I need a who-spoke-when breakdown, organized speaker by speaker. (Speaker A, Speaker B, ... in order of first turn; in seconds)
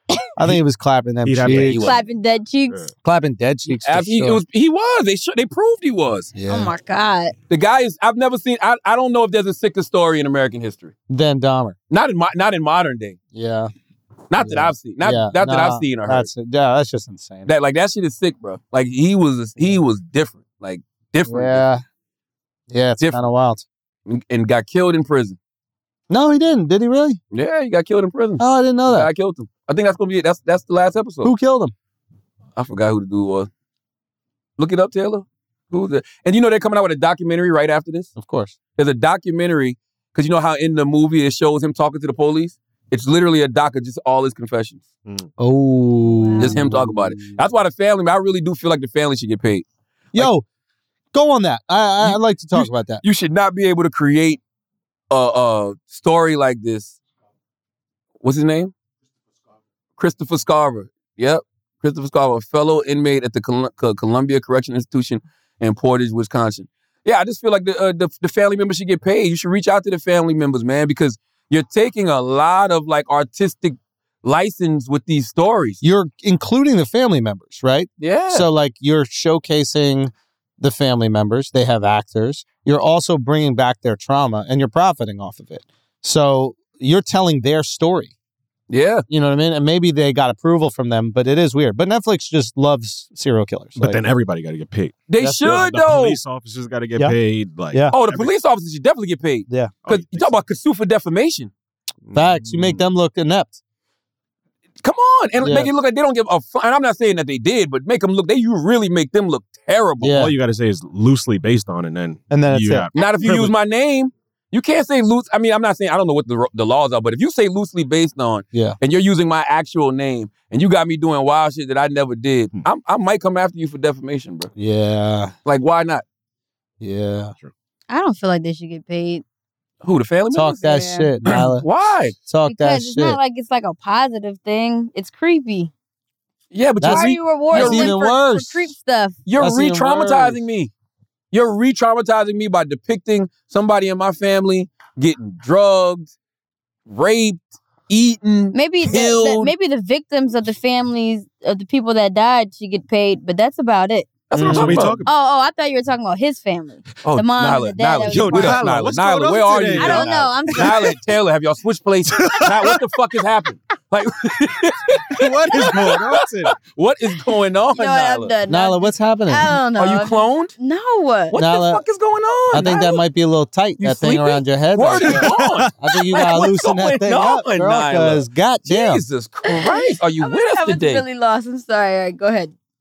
Speaker A: 0.4-1.8, 3.0-4.4, 6.3-6.7, 11.1-11.8, 13.3-13.7, 14.4-17.5, 21.2-21.8, 22.7-23.6, 26.1-27.2, 28.4-29.1, 31.2-31.7, 38.2-38.5, 45.4-47.3, 50.1-50.4, 51.1-53.0, 75.8-88.1, 89.1-94.0, 95.2-95.5, 99.5-99.7, 102.1-103.6, 105.4-105.7, 110.0-110.3, 112.3-112.9, 124.5-125.3, 126.8-127.3, 130.3-131.7, 132.2-133.2, 136.8-138.7, 139.4-140.4, 154.3-154.9, 168.5-169.5, 171.3-171.8, 172.5-179.0
Speaker B: 1.2-1.9, 93.8-98.3, 99.8-100.3, 102.0-102.8, 110.1-113.5, 154.4-155.1, 158.0-161.0, 162.1-162.8, 165.1-166.6, 175.0-175.7
Speaker C: 1.5-2.0, 3.7-6.3, 7.5-10.9, 11.9-13.2, 14.3-16.3, 17.4-21.6, 23.0-23.2, 24.1-25.4, 27.3-31.3, 32.5-33.5, 34.6-38.1, 38.8-44.8, 46.4-50.3, 52.0-54.4, 55.1-57.0, 58.2-58.7, 60.0-75.8, 78.0-78.5, 88.7-89.0, 95.1-96.2, 97.9-101.5, 104.8-110.2, 112.9-124.5, 125.4-126.0, 129.8-130.6, 131.2-132.1, 136.5-137.9, 139.2-140.7, 141.3-146.1, 146.9-149.5, 154.3-155.0, 157.0-168.3, 169.8-170.5, 171.3-173.0, 173.8-181.0
Speaker D: 1.8-2.8, 6.5-7.3, 46.1-46.6, 127.9-129.2, 130.6-131.1, 132.4-135.7, 136.8-139.2, 148.5-154.1, 155.1-158.7, 159.7-160.9, 167.7-171.3, 179.4-182.5